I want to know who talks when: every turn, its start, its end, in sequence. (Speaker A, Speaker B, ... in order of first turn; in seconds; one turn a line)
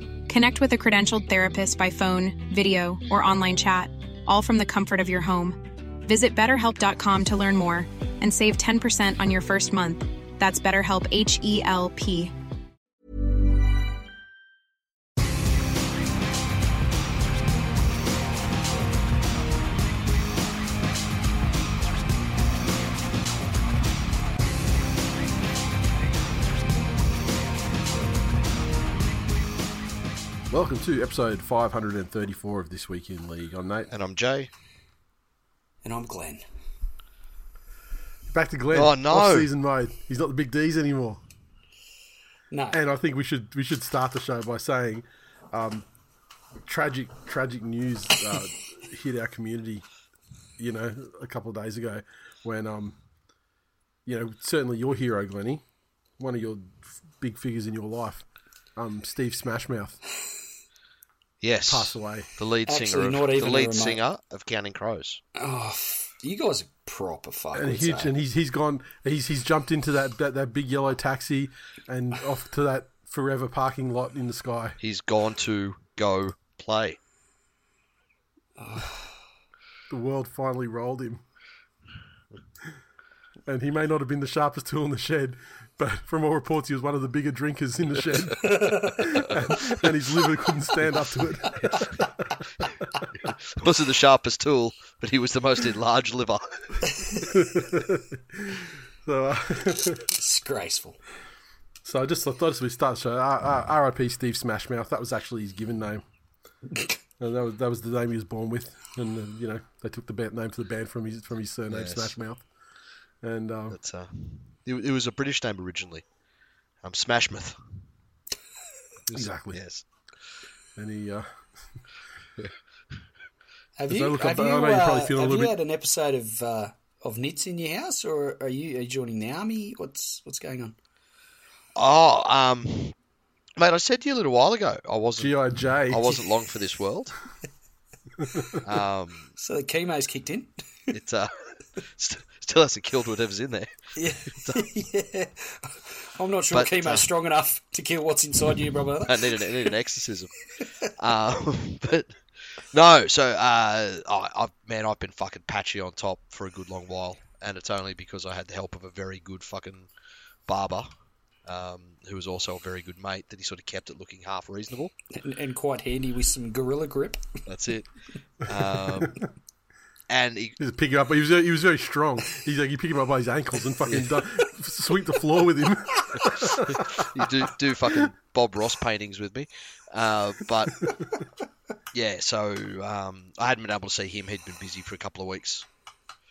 Speaker A: 0.3-12.3
Speaker B: 30.5-33.9
Speaker C: 33.9-34.5
Speaker D: 35.8-36.4
Speaker B: 38.3-41.2
Speaker C: 38.7-39.5
Speaker D: 42.5-42.8
Speaker B: 42.7-45.9
Speaker B: 46.6-49.9
Speaker B: 50.6-53.0
Speaker B: 54.0-55.6
Speaker B: 56.2-58.2
Speaker B: 58.8-60.0
Speaker C: 61.4-65.2
Speaker B: 61.7-62.3
Speaker D: 62.6-64.0
Speaker D: 65.3-68.1
Speaker B: 67.5-74.8
Speaker C: 74.8-77.0
Speaker D: 78.6-79.2
Speaker B: 79.9-81.2
Speaker B: 83.5-92.4
Speaker D: 88.4-89.2
Speaker C: 93.2-97.2
Speaker D: 96.9-97.2
Speaker B: 97.2-100.1
Speaker D: 100.1-101.0
Speaker B: 101.8-106.0
Speaker B: 107.2-112.5
Speaker C: 111.7-112.2
Speaker B: 113.2-113.8
Speaker C: 113.7-116.0
Speaker C: 116.8-117.8
Speaker C: 119.1-119.8
Speaker B: 119.1-119.6
Speaker B: 120.8-121.8
Speaker D: 123.8-130.8
Speaker B: 123.9-125.5
Speaker C: 131.8-132.9
Speaker C: 133.6-137.1
Speaker B: 135.2-136.2
Speaker B: 138.2-138.6
Speaker C: 138.6-139.3
Speaker D: 139.4-140.7
Speaker C: 140.9-143.7
Speaker D: 143.9-149.6
Speaker C: 146.5-147.1
Speaker C: 149.0-150.3
Speaker C: 150.8-159.9
Speaker C: 160.5-160.9
Speaker C: 161.4-164.9
Speaker D: 165.1-167.4
Speaker C: 167.5-169.2
Speaker C: 170.1-170.6
Speaker B: 170.6-177.4
Speaker C: 173.8-174.1
Speaker D: 176.0-176.3
Speaker C: 176.7-180.8
Speaker C: 181.9-185.7